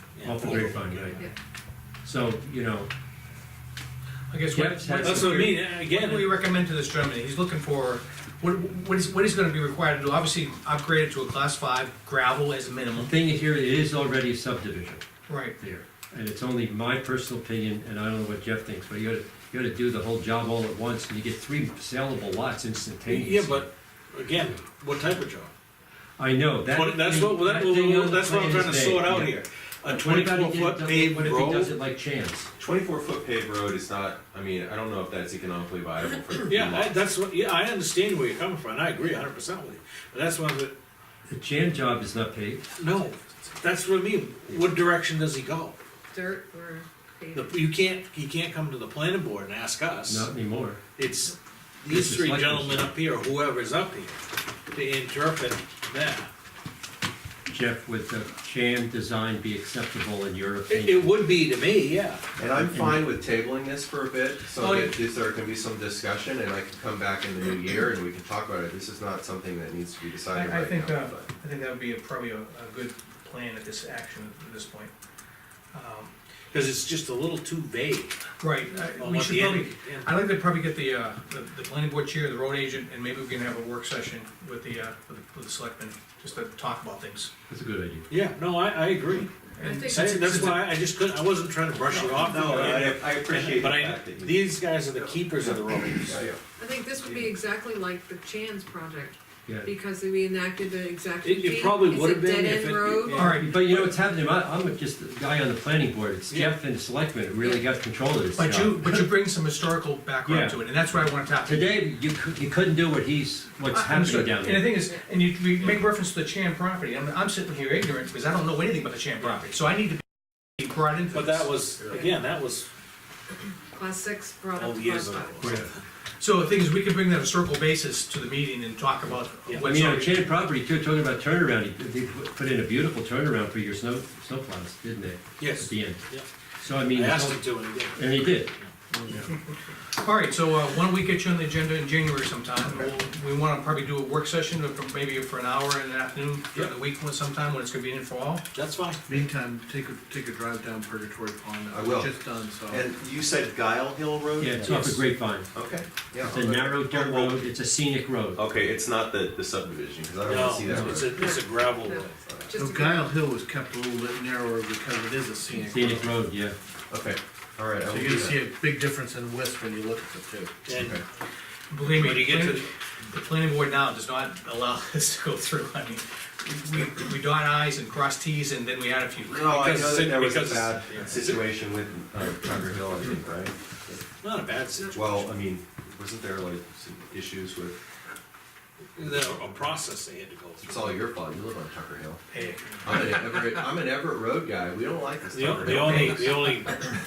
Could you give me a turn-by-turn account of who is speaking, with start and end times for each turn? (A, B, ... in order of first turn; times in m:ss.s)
0:00.1-0:01.2 A
0:00.2-0:01.2 B
0:00.4-0:01.3 C
0:02.0-0:02.9 B
0:04.3-0:13.1 D
0:04.5-0:05.5 B
0:05.0-0:06.3 A
0:13.0-0:15.0 B
0:15.3-0:15.6 D
0:15.6-0:23.7 B
0:23.0-0:25.5 A
0:26.2-0:32.5 B
0:26.7-0:31.7 A
0:32.6-0:37.0 E
0:36.5-0:40.7 A
0:41.3-0:42.6 B
0:42.8-0:45.8 A
0:46.1-0:47.6 C
0:47.3-0:50.3 A
0:50.1-0:50.8 B
0:51.0-0:54.2 A
0:51.9-0:52.9 B
0:54.7-0:56.3 A
0:57.5-1:01.1 B
1:00.7-1:02.2 A
1:02.4-1:11.3 E
1:02.4-1:03.1 B
1:04.6-1:04.9 D
1:10.3-1:14.9 D
1:15.7-1:16.1 D
1:16.5-1:18.2 A
1:18.4-1:27.3 D
1:19.0-1:20.1 A
1:27.5-1:28.0 B
1:28.1-1:36.2 A
1:29.6-1:30.6 D
1:29.6-1:30.3 C
1:32.1-1:34.5 E
1:36.1-1:36.4 E
1:36.6-1:43.3 C
1:41.2-1:43.9 A
1:43.1-1:49.1 B
1:43.2-1:43.5 D
1:46.3-1:46.6 A
1:48.3-1:51.6 D
1:50.2-1:50.6 B
1:51.4-1:54.8 B
1:53.7-2:00.0 D
2:00.6-2:01.4 D
2:01.1-2:02.7 A
2:03.7-2:05.6 C
2:04.5-2:05.8 A
2:05.4-2:05.7 B
2:06.2-2:10.2 D
2:09.6-2:16.0 B
2:15.4-2:16.2 A
2:16.6-2:17.4 B
2:16.9-2:18.7 A
2:17.9-2:18.5 B
2:18.9-2:19.3 F
2:20.0-2:28.4 D
2:28.5-2:29.0 A
2:29.0-2:32.9 F
2:31.7-2:32.1 E
2:32.7-2:34.7 E
2:34.4-2:35.5 B
2:34.6-2:35.0 A
2:35.5-2:37.4 E
2:36.2-2:38.4 B
2:38.4-2:41.2 E
2:40.2-2:42.2 A
2:40.6-2:41.0 B
2:41.1-2:43.1 C
2:42.5-2:46.1 F
2:45.6-2:46.6 B
2:46.9-2:48.4 E
2:47.8-2:50.6 F
2:50.6-2:51.0 A
2:50.7-2:51.0 E
2:51.7-2:59.5 D
2:51.9-2:52.7 A
2:59.2-3:04.0 E
2:59.5-3:01.4 A
3:04.2-3:05.2 A
3:04.9-3:07.8 E
3:09.0-3:10.9 A
3:10.6-3:12.2 E
3:12.3-3:12.6 D
3:12.8-3:16.5 E
3:15.3-3:16.8 A